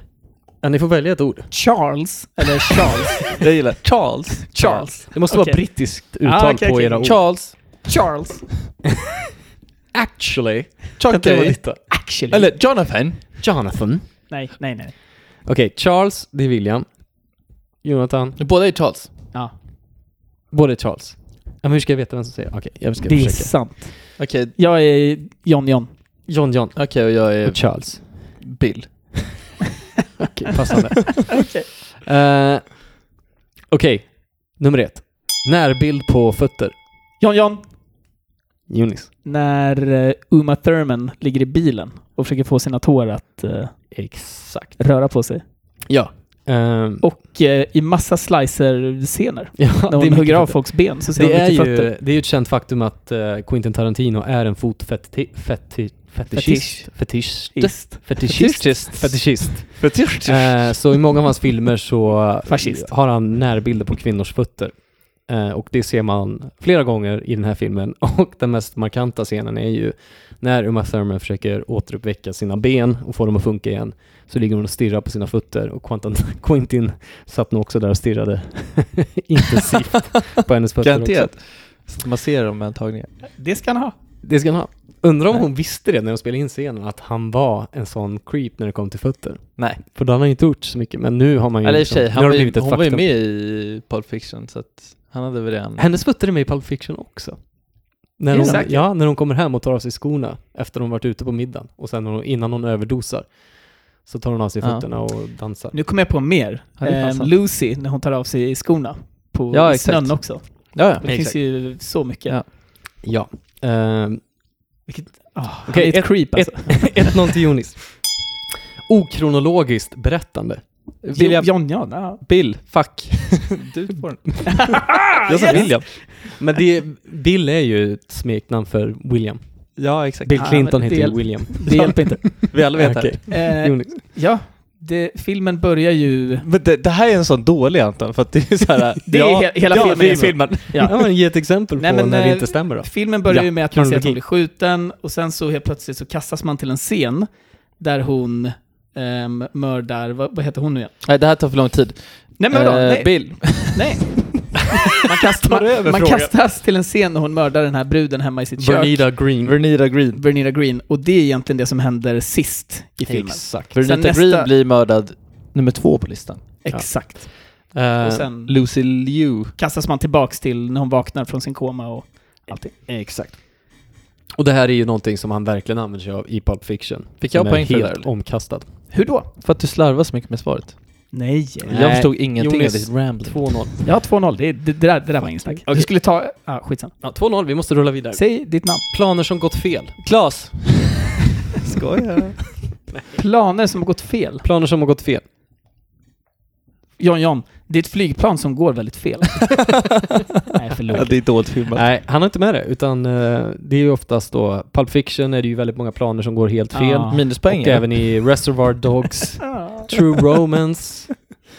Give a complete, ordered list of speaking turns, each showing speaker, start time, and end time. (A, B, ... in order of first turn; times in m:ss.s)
0:00.6-0:01.5 A
0:01.5-0:03.4 B
0:03.4-0:04.5 C
0:04.5-0:07.2 B
0:04.5-0:07.2 A
0:07.0-0:07.6 C
0:07.8-0:08.5 B
0:09.9-0:11.8 A
0:11.0-0:11.6 C
0:11.1-0:12.5 B
0:12.3-0:13.2 C
0:13.4-0:14.3 A
0:14.3-0:14.9 B
0:15.4-0:17.1 A
0:17.8-0:18.4 A
0:18.4-0:19.1 C
0:20.5-0:23.6 A
0:23.0-0:25.9 B
0:24.2-0:24.5 C
0:26.3-0:28.4 A
0:26.7-0:29.2 C
0:30.2-0:31.5 A
0:31.3-0:31.7 B
0:32.0-0:32.9 A
0:33.7-0:36.7 A
0:37.2-0:37.7 B
0:38.7-0:39.1 A
0:39.2-0:43.9 B
0:43.9-0:44.8 A
0:44.8-0:45.4 B
0:45.9-0:47.0 A
0:47.0-0:51.9 B
0:49.6-1:21.3 A
0:56.3-0:58.3 B
0:58.2-1:00.9 C
1:02.4-1:02.9 B
1:20.8-1:23.1 C
1:23.3-1:23.9 B
1:24.2-1:33.1 A
1:29.6-1:29.8 C
1:31.6-1:35.8 C
1:35.8-1:45.7 A
1:38.3-1:38.6 C
1:38.3-1:38.8 B
1:44.6-1:44.9 C
1:45.7-1:52.4 B
1:46.8-1:47.3 C
1:49.5-1:51.0 C
1:51.0-1:51.4 A
1:53.0-1:54.2 A
1:54.9-1:57.2 B
1:55.7-1:58.2 A
1:58.9-2:00.6 A
2:01.0-2:06.0 C
2:01.1-2:02.2 B
2:02.7-2:03.6 A
2:04.5-2:05.8 B
2:05.4-2:14.0 A
2:09.8-2:10.4 C
2:10.3-2:12.6 B
2:12.5-2:13.3 C
2:13.3-2:16.4 B
2:16.4-2:21.0 C
2:19.0-2:21.2 B
2:19.7-2:24.2 A
2:21.8-2:30.9 B
2:31.0-2:34.0 C
2:32.4-2:39.2 B
2:35.0-2:36.3 A
2:38.6-2:39.6 A
2:39.4-2:40.2 C
2:40.1-2:44.5 B
2:43.0-2:43.8 A
2:43.7-2:46.4 C
2:46.6-2:48.6 B
2:46.7-2:48.3 A
2:48.5-2:49.5 C
2:49.6-2:52.8 B
2:52.8-2:53.8 A
2:54.4-2:58.7 A
2:57.2-2:58.1 C
2:58.9-2:59.3 B
2:59.4-3:01.1 C
3:01.1-3:01.7 B
3:01.6-3:03.8 A
3:01.7-3:03.7 C
3:03.8-3:06.9 B
3:05.6-3:05.9 A
3:07.0-3:10.0 A
3:08.1-3:08.8 B
3:10.0-3:11.0 C
3:11.6-3:12.7 C
3:13.1-3:14.4 B
3:14.4-3:15.2 A
3:17.0-3:19.6 B
3:20.5-3:21.4 B
3:20.9-3:21.8 C
3:21.7-3:31.2 A
3:26.7-3:27.2 B
3:27.1-3:28.3 C
3:29.4-3:29.9 B